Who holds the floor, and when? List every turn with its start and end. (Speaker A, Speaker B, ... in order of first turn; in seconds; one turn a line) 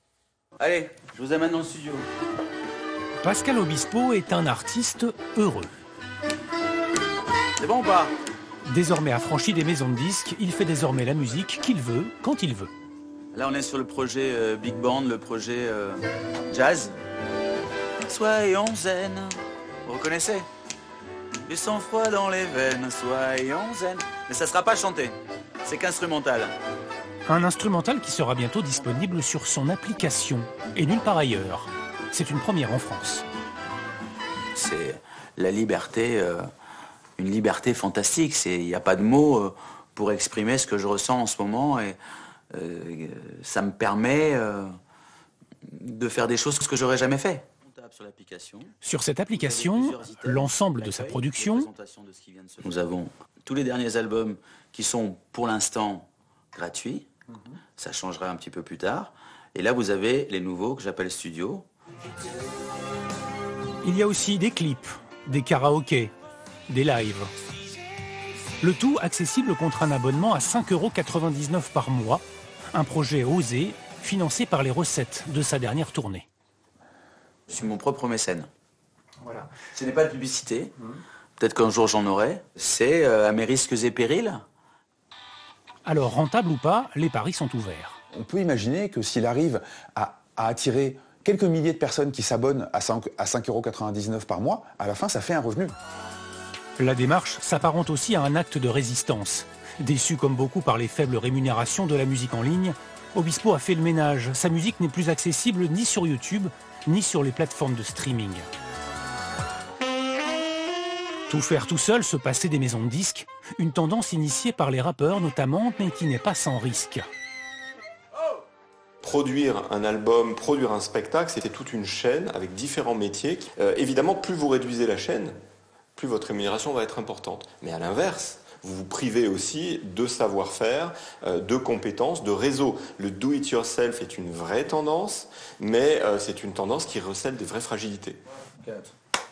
Speaker A: 0.6-2.1
Speaker B: 3.2-5.7
Speaker A: 7.6-8.1
Speaker B: 8.7-12.7
Speaker A: 13.3-17.0
Speaker A: 18.1-20.5
Speaker A: 21.5-26.6
Speaker B: 27.3-33.2
Speaker A: 34.5-36.5
Speaker A: 37.2-42.0
Speaker A: 42.5-44.7
Speaker A: 45.6-48.7
Speaker B: 48.8-51.7
Speaker A: 49.3-57.1
Speaker A: 57.8-61.7
Speaker B: 63.8-66.1
Speaker B: 66.7-67.3
Speaker B: 68.6-72.2
Speaker B: 72.7-76.3
Speaker A: 77.5-78.5
Speaker A: 79.6-80.7
Speaker A: 81.4-84.4
Speaker B: 85.9-88.0
Speaker C: 88.1-95.8
Speaker B: 96.8-108.5
Speaker B: 111.3-117.0
Speaker D: 119.0-125.4
Speaker D: 126.0-138.2
Speaker A: 138.6-138.9